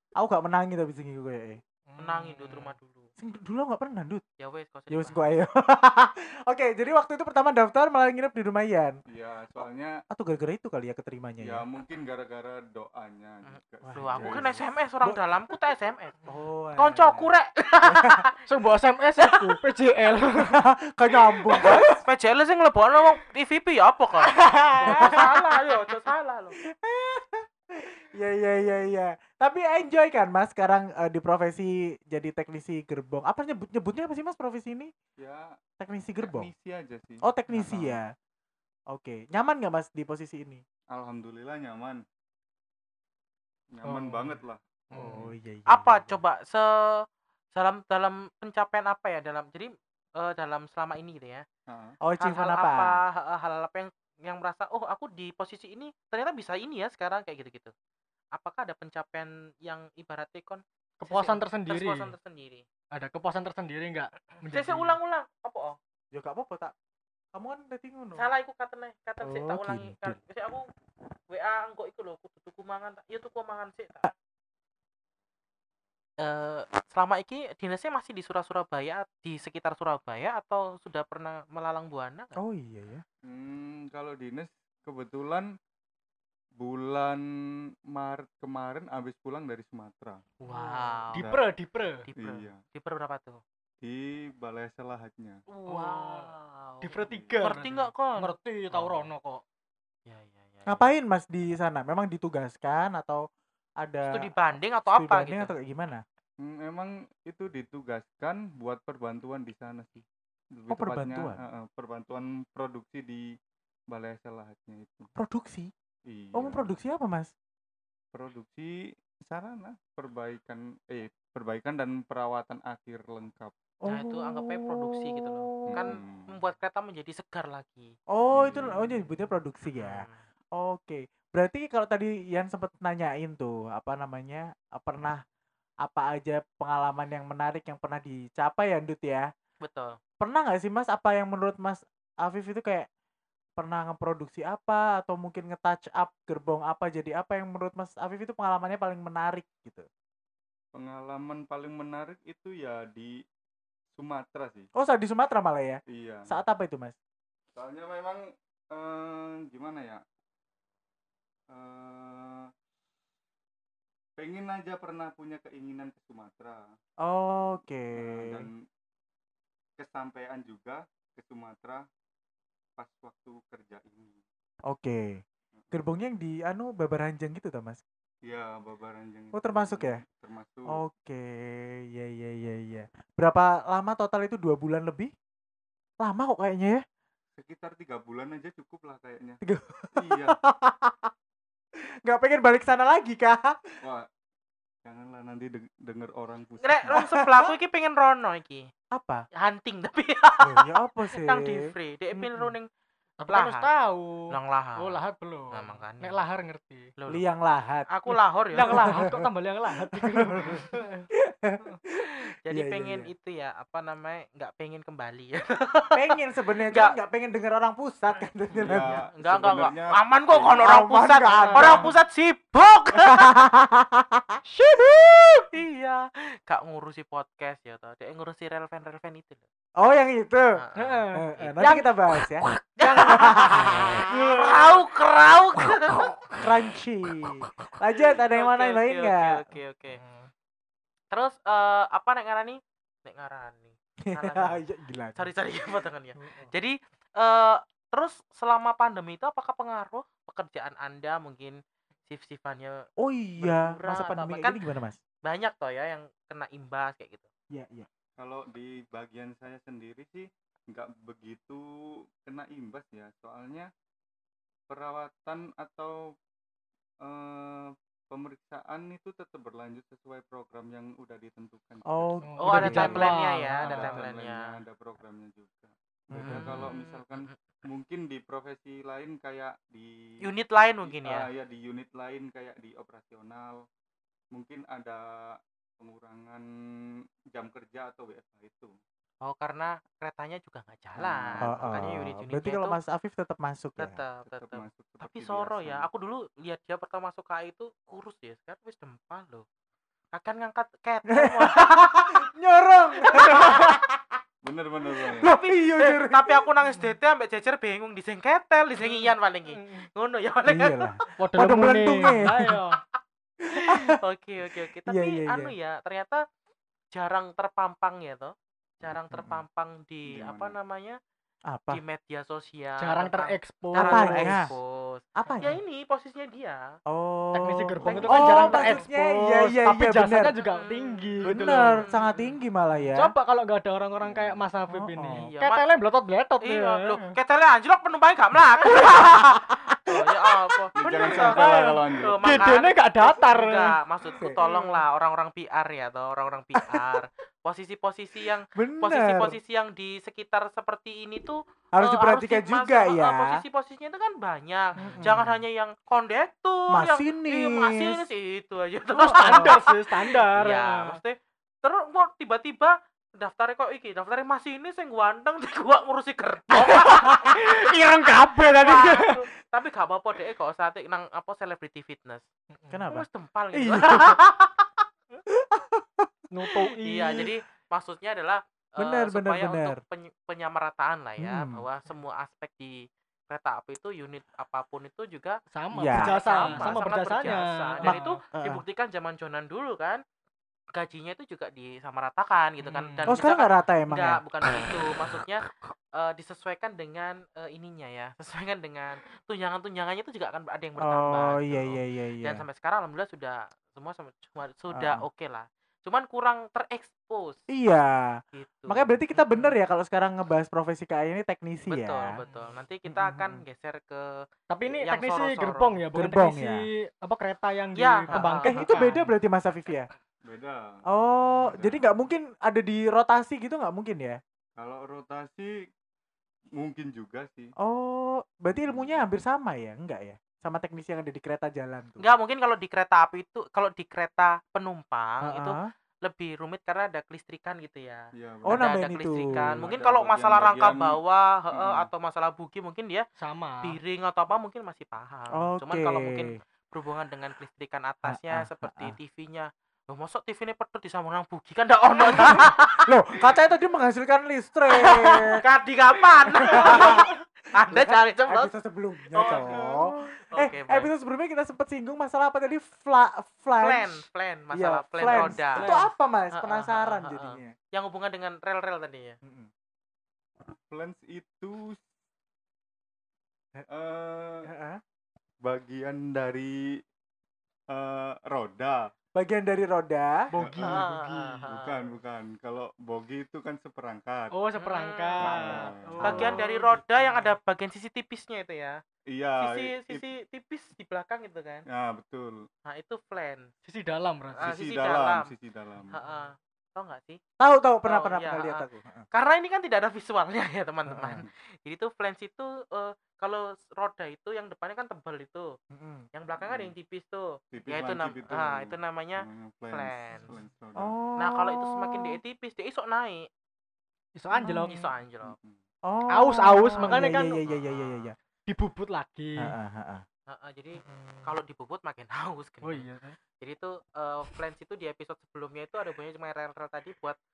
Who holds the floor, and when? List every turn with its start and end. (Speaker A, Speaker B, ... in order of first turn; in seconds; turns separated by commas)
Speaker A: 0.2-1.6, Speaker B: 1.9-2.7, Speaker C: 2.0-3.1, Speaker A: 3.2-4.2, Speaker C: 4.4-5.3, Speaker A: 4.9-9.0, Speaker D: 9.1-9.9, Speaker A: 10.1-11.6, Speaker D: 11.4-14.6, Speaker C: 13.4-16.1, Speaker A: 13.8-15.3, Speaker A: 16.3-17.3, Speaker C: 16.8-18.3, Speaker A: 17.9-18.2, Speaker B: 18.5-20.6, Speaker A: 20.4-22.0, Speaker B: 21.5-21.8, Speaker C: 22.0-26.6, Speaker A: 24.5-25.3, Speaker B: 24.7-25.2, Speaker A: 26.6-34.9, Speaker D: 35.2-35.5, Speaker A: 35.8-36.5, Speaker D: 36.2-38.0, Speaker A: 37.2-38.1, Speaker A: 38.9-40.6, Speaker D: 40.9-42.0, Speaker D: 43.7-45.3, Speaker B: 43.8-44.4, Speaker B: 44.9-45.2, Speaker A: 45.0-46.2, Speaker C: 45.7-51.5, Speaker D: 51.7-52.0, Speaker A: 52.0-53.0, Speaker C: 52.2-57.7, Speaker C: 58.3-62.6, Speaker B: 61.0-62.1, Speaker B: 62.9-65.0, Speaker C: 64.5-65.8, Speaker A: 66.1-66.7, Speaker A: 67.3-68.2, Speaker C: 68.2-70.7, Speaker A: 69.2-70.2, Speaker C: 71.3-74.1, Speaker C: 76.2-82.4, Speaker A: 82.4-83.0, Speaker D: 83.2-85.5, Speaker D: 86.6-87.2, Speaker D: 87.9-90.2, Speaker C: 90.4-91.2, Speaker B: 90.5-92.0, Speaker D: 91.2-91.4, Speaker C: 92.0-93.4, Speaker D: 92.2-92.6, Speaker D: 93.8-95.4, Speaker C: 95.5-99.1, Speaker B: 95.7-99.4, Speaker D: 97.0-97.4, Speaker C: 100.0-100.8, Speaker A: 100.7-103.2, Speaker A: 103.8-104.3, Speaker C: 104.0-105.5, Speaker A: 104.9-106.0, Speaker D: 106.4-110.0, Speaker D: 110.5-113.3, Speaker A: 110.7-111.4, Speaker D: 113.9-115.1, Speaker A: 115.2-115.7, Speaker D: 116.1-116.7, Speaker A: 116.3-117.3, Speaker D: 118.1-123.5, Speaker A: 123.8-125.9, Speaker C: 123.9-127.9, Speaker D: 125.7-126.3, Speaker A: 128.1-130.1, Speaker D: 128.3-128.9, Speaker C: 129.8-130.2, Speaker A: 130.6-135.2, Speaker A: 135.8-139.3, Speaker C: 139.6-139.9, Speaker A: 140.2-142.9, Speaker A: 143.6-149.9, Speaker D: 150.7-153.1, Speaker D: 154.0-154.7, Speaker A: 154.8-157.0, Speaker D: 155.9-156.3, Speaker D: 157.5-160.0, Speaker D: 161.5-162.5, Speaker D: 164.2-166.6, Speaker A: 167.0-168.5, Speaker D: 167.9-168.6, Speaker D: 169.8-171.8, Speaker D: 172.8-174.2, Speaker A: 174.7-175.2, Speaker A: 175.7-177.8, Speaker D: 178.2-180.8, Speaker A: 179.3-180.0, Speaker A: 180.7-185.1, Speaker A: 186.0-186.8, Speaker D: 187.4-189.4, Speaker A: 189.4-191.1, Speaker D: 189.9-190.4, Speaker A: 192.0-193.6, Speaker D: 193.8-194.1, Speaker D: 194.8-197.0, Speaker C: 196.6-198.7, Speaker A: 196.9-197.5, Speaker A: 198.9-199.2, Speaker C: 199.3-202.7, Speaker A: 200.4-201.6, Speaker A: 202.2-202.5, Speaker B: 203.2-206.9, Speaker C: 203.3-203.7, Speaker C: 204.3-205.0, Speaker C: 205.5-206.2, Speaker C: 207.0-207.2, Speaker A: 207.1-207.9, Speaker C: 207.9-209.0, Speaker B: 208.5-211.1, Speaker A: 208.6-209.2, Speaker A: 209.8-213.1, Speaker C: 212.4-216.1, Speaker A: 215.9-219.0, Speaker C: 216.7-216.9, Speaker D: 218.6-220.6, Speaker C: 218.6-223.3, Speaker A: 220.6-221.9, Speaker B: 221.4-221.9, Speaker A: 223.1-224.4, Speaker B: 224.4-225.5, Speaker C: 225.5-229.4, Speaker A: 229.8-230.5, Speaker C: 230.5-231.9, Speaker B: 230.8-231.2, Speaker A: 231.1-232.5, Speaker C: 232.8-236.0, Speaker B: 232.8-234.8, Speaker A: 233.1-234.0, Speaker A: 235.9-239.4, Speaker C: 238.3-240.0, Speaker B: 239.9-240.3, Speaker C: 241.1-244.6, Speaker A: 244.1-245.3, Speaker C: 245.2-252.8, Speaker A: 253.0-255.0, Speaker C: 253.4-254.6, Speaker C: 255.2-257.3, Speaker A: 257.5-257.9, Speaker D: 258.2-261.6, Speaker D: 262.2-263.7, Speaker D: 264.7-266.0, Speaker D: 267.0-272.2, Speaker A: 271.9-273.1, Speaker B: 272.2-273.9, Speaker C: 272.4-274.5, Speaker D: 273.6-279.9, Speaker A: 276.1-276.6, Speaker C: 276.2-277.4, Speaker C: 280.2-281.3, Speaker D: 280.9-283.6, Speaker D: 284.3-286.4, Speaker D: 287.3-288.7, Speaker C: 289.2-292.8, Speaker D: 291.0-291.9, Speaker A: 291.4-294.0, Speaker C: 293.8-299.4, Speaker D: 294.2-295.9, Speaker C: 300.1-302.1, Speaker A: 301.1-304.0, Speaker C: 303.1-303.7, Speaker B: 303.2-303.6, Speaker D: 304.4-305.3, Speaker A: 305.1-306.4, Speaker C: 305.2-310.9, Speaker B: 308.8-309.9, Speaker A: 310.5-312.6, Speaker B: 311.2-312.8, Speaker C: 313.5-316.2, Speaker A: 313.6-313.9, Speaker A: 314.9-315.5, Speaker C: 316.9-321.0, Speaker A: 319.1-319.4, Speaker D: 320.1-320.5, Speaker A: 321.5-321.8, Speaker C: 321.7-326.7, Speaker B: 322.8-324.5, Speaker A: 323.8-324.5, Speaker A: 325.1-325.6, Speaker B: 325.2-325.5, Speaker A: 326.9-330.3, Speaker B: 327.3-332.2, Speaker C: 327.8-328.8, Speaker C: 330.4-332.1, Speaker A: 331.2-333.1, Speaker B: 332.7-337.1, Speaker D: 334.0-334.5, Speaker A: 334.7-335.3, Speaker C: 335.1-335.6, Speaker C: 336.4-367.7, Speaker B: 338.7-339.0, Speaker D: 340.8-342.6, Speaker B: 340.8-343.7, Speaker A: 344.1-344.8, Speaker A: 348.5-349.4, Speaker A: 351.8-353.4, Speaker B: 354.8-355.1, Speaker A: 354.8-355.4, Speaker A: 356.7-358.0, Speaker B: 359.0-361.0, Speaker B: 366.7-369.2, Speaker C: 368.5-372.2, Speaker B: 372.5-372.8, Speaker A: 372.7-374.2, Speaker C: 372.9-374.8, Speaker A: 375.3-376.1, Speaker B: 376.3-377.2, Speaker C: 376.8-390.0, Speaker A: 378.8-379.8, Speaker A: 381.2-381.6, Speaker B: 385.5-388.1, Speaker A: 385.7-386.7, Speaker A: 387.8-388.6, Speaker C: 390.8-407.4, Speaker B: 392.6-393.1, Speaker A: 393.1-394.2, Speaker A: 400.8-402.4, Speaker A: 404.7-405.1, Speaker A: 407.5-412.1, Speaker C: 408.3-409.5, Speaker C: 411.7-414.1, Speaker B: 412.2-412.5, Speaker A: 412.9-413.4, Speaker B: 414.5-419.1, Speaker C: 414.7-415.8, Speaker A: 415.9-416.7, Speaker C: 417.8-418.9, Speaker A: 418.1-419.9, Speaker D: 420.2-420.8, Speaker A: 420.9-424.2, Speaker D: 421.4-421.9, Speaker D: 424.6-425.5, Speaker D: 426.6-427.5, Speaker A: 427.6-432.0, Speaker D: 428.5-429.0, Speaker C: 432.0-443.0, Speaker A: 435.2-435.6, Speaker D: 438.2-438.7, Speaker A: 438.4-439.6, Speaker D: 439.3-441.0, Speaker D: 441.5-441.9, Speaker B: 443.2-443.8, Speaker C: 443.6-452.9, Speaker A: 445.4-446.3, Speaker A: 448.1-448.9, Speaker A: 452.1-455.4, Speaker C: 455.3-458.5, Speaker A: 456.3-457.1, Speaker B: 456.5-457.1, Speaker A: 457.7-467.5, Speaker C: 459.1-459.6, Speaker D: 459.2-459.9, Speaker C: 460.2-460.9, Speaker C: 463.6-465.7, Speaker D: 465.0-465.4, Speaker B: 465.6-465.9, Speaker C: 466.3-469.2, Speaker A: 469.2-469.5, Speaker D: 470.7-471.8, Speaker D: 473.7-474.5, Speaker A: 474.5-474.8, Speaker D: 475.4-476.6, Speaker D: 477.7-478.9, Speaker A: 479.1-480.3, Speaker B: 480.3-481.4, Speaker D: 480.4-480.8, Speaker C: 480.6-481.8, Speaker D: 481.4-484.3, Speaker B: 484.3-487.3, Speaker C: 484.6-488.8, Speaker D: 485.2-486.4, Speaker D: 489.1-490.0, Speaker C: 489.4-491.6, Speaker D: 491.7-492.4, Speaker C: 492.6-493.5, Speaker B: 493.6-494.4, Speaker D: 494.4-496.0, Speaker C: 494.4-495.3, Speaker C: 495.9-497.2, Speaker A: 497.4-499.1, Speaker C: 497.8-505.5, Speaker A: 500.9-501.2, Speaker A: 505.7-506.1, Speaker C: 506.1-510.3, Speaker D: 506.4-506.7, Speaker D: 507.5-510.9, Speaker A: 510.8-512.2, Speaker C: 511.2-513.3, Speaker B: 514.1-514.9, Speaker A: 514.3-514.7, Speaker C: 514.7-515.3, Speaker D: 515.2-515.6, Speaker A: 515.9-518.1, Speaker B: 516.1-517.3, Speaker C: 516.8-518.1, Speaker B: 518.5-519.5, Speaker A: 519.4-520.0, Speaker C: 520.3-522.9, Speaker B: 522.6-523.2, Speaker C: 523.4-527.2